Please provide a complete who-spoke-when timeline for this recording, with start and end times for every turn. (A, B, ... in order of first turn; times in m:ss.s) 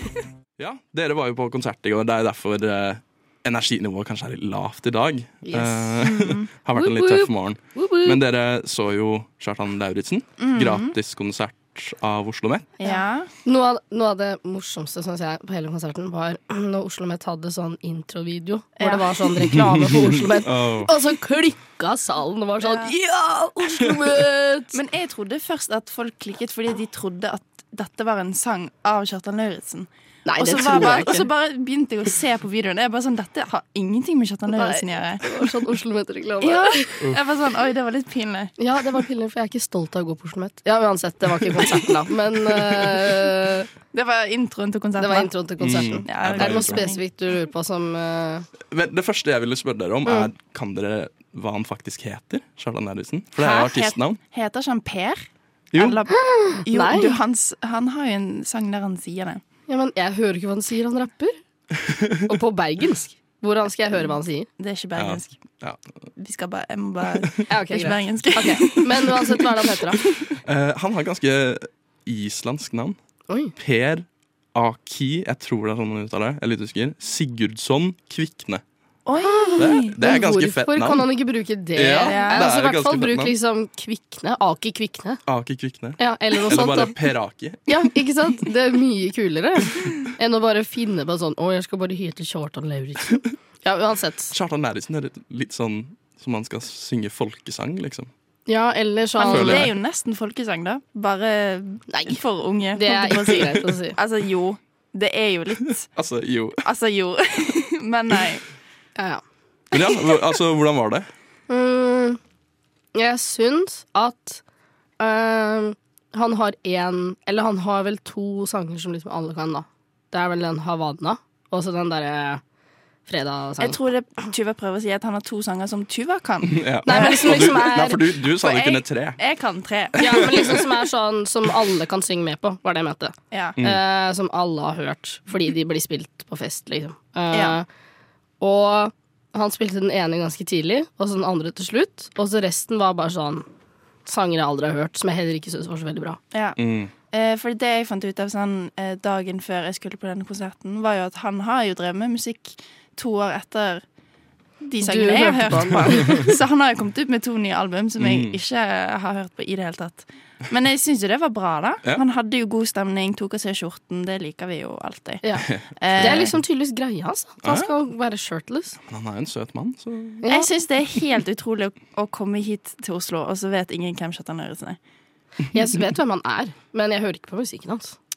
0:00.6-0:12.8 A
0:05.4-0:06.1 B
0:06.0-0:06.5 C
0:06.7-0:08.2 B
0:10.4-0:10.9 C
0:12.8-0:13.3 C
0:12.8-0:24.8 B
0:18.8-0:19.8 C
0:19.8-0:20.9 A
0:22.6-0:22.9 C
0:24.7-0:35.2 C
0:30.2-0:31.3 B
0:34.5-0:37.0 B
0:36.4-0:38.5 C
0:38.6-0:43.7 B
0:43.9-0:47.0 C
0:45.0-0:48.5 B
0:45.6-0:46.8 A
0:48.7-0:54.2 A
0:50.0-0:50.3 B
0:53.4-0:59.4 C
0:56.1-0:57.2 B
0:59.7-1:01.4 B
1:01.9-1:02.2 A
1:02.3-1:04.5 B
1:04.6-1:05.4 C
1:05.0-1:05.8 A
1:06.2-1:10.3 C
1:07.5-1:10.0 B
1:10.4-1:13.0 A
1:13.3-1:13.5 B
1:13.6-1:18.6 A
1:19.1-1:20.0 C
1:19.2-1:25.2 B
1:19.6-1:21.1 A
1:21.7-1:23.3 A
1:21.9-1:22.4 C
1:25.3-1:27.9 A
1:26.0-1:26.9 B
1:27.7-1:34.4 B
1:34.3-1:38.1 A
1:38.5-1:39.7 B
1:39.2-1:45.9 C
1:39.2-1:39.7 A
1:41.9-1:42.2 B
1:42.7-1:44.0 B
1:45.9-1:46.6 A
1:46.6-1:48.5 C
1:49.0-1:49.2 B
1:49.7-1:51.1 A
1:51.5-1:52.2 B
1:53.0-1:54.4 B
1:55.0-2:02.4 B
2:03.1-2:03.8 B
2:03.6-2:07.8 C
2:06.4-2:09.2 A
2:06.8-2:08.0 B
2:08.4-2:10.6 C
2:10.0-2:10.6 A
2:10.0-2:17.7 B
2:13.3-2:13.6 C
2:17.3-2:17.6 C
2:18.4-2:23.4 B
2:24.1-2:26.2 B
2:26.3-2:26.6 C
2:26.6-2:26.9 A
2:27.1-2:33.8 C
2:34.6-2:45.2 C
2:34.8-2:36.2 B
2:38.0-2:38.4 A
2:45.2-2:48.8 B
2:45.5-2:46.4 A
2:45.8-2:46.3 C
2:47.4-2:47.7 A
2:48.9-2:50.2 A
2:50.2-2:50.5 B
2:50.3-2:54.8 C
2:55.5-2:58.0 B